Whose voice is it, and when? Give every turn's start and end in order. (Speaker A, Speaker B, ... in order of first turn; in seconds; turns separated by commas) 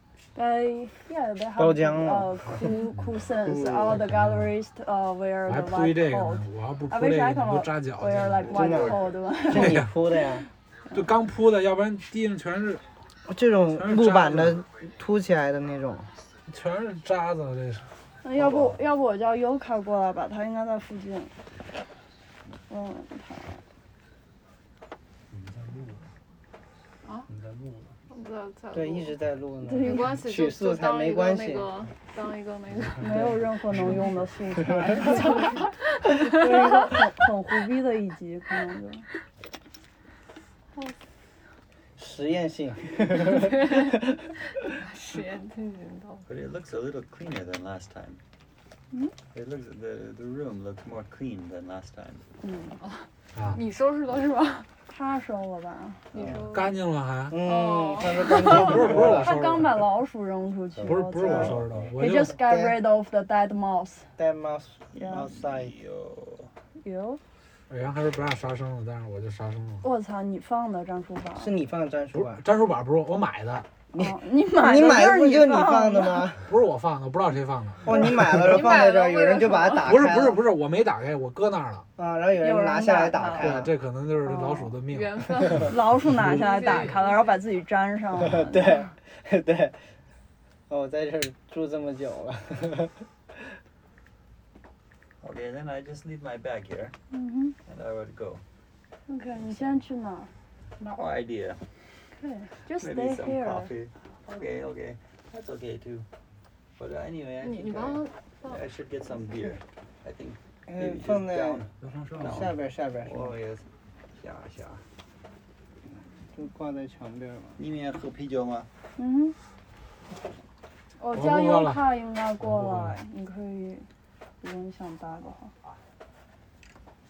Speaker A: 0.3-10.3, Speaker B: 1.6-2.5, Speaker C: 4.0-4.3, Speaker C: 5.5-8.7, Speaker B: 8.5-10.5, Speaker C: 9.5-9.9, Speaker C: 10.9-12.8, Speaker B: 13.3-16.1, Speaker C: 13.8-14.6, Speaker C: 16.5-17.9, Speaker A: 18.2-21.3, Speaker A: 22.7-23.6, Speaker D: 25.3-26.1, Speaker D: 27.3-28.0, Speaker E: 28.1-29.1, Speaker B: 28.7-31.7, Speaker A: 29.6-30.1, Speaker E: 29.8-33.3, Speaker A: 33.0-39.0, Speaker B: 34.8-35.0, Speaker E: 35.1-36.8, Speaker B: 42.0-44.2, Speaker E: 43.2-46.2, Speaker F: 46.3-48.2, Speaker F: 49.3-52.2, Speaker A: 52.4-52.8, Speaker E: 52.8-54.7, Speaker C: 53.3-53.6, Speaker A: 54.9-56.3, Speaker E: 56.1-56.8, Speaker C: 56.4-57.4, Speaker B: 57.3-59.3, Speaker E: 57.4-58.8, Speaker C: 58.3-59.9, Speaker A: 58.9-64.1, Speaker F: 60.8-61.9, Speaker C: 60.9-62.4, Speaker B: 62.3-62.8, Speaker B: 64.2-65.7, Speaker F: 64.9-66.5, Speaker A: 65.0-65.3, Speaker A: 66.8-67.2, Speaker C: 67.7-69.9, Speaker A: 69.8-71.5, Speaker B: 71.4-72.4, Speaker C: 72.1-73.7, Speaker B: 73.9-76.5, Speaker A: 74.0-76.3, Speaker C: 76.4-78.0, Speaker B: 77.8-80.4, Speaker E: 78.2-80.1, Speaker C: 79.8-81.9, Speaker B: 82.0-83.7, Speaker A: 82.4-83.6, Speaker C: 83.3-85.5, Speaker A: 84.2-84.8, Speaker E: 84.9-87.4, Speaker A: 85.6-88.9, Speaker B: 88.3-89.8, Speaker B: 90.7-93.0, Speaker F: 95.2-97.0, Speaker A: 97.1-97.6, Speaker F: 97.6-98.4, Speaker A: 99.1-100.3, Speaker F: 99.5-99.8, Speaker F: 100.8-101.7, Speaker A: 102.1-103.7, Speaker F: 102.7-106.1, Speaker F: 106.8-114.8, Speaker E: 107.4-108.7, Speaker B: 110.7-113.4, Speaker D: 111.8-112.5, Speaker B: 116.3-117.6, Speaker F: 117.6-118.7, Speaker A: 119.0-119.4, Speaker A: 121.0-123.9, Speaker C: 121.1-123.0, Speaker A: 124.4-125.5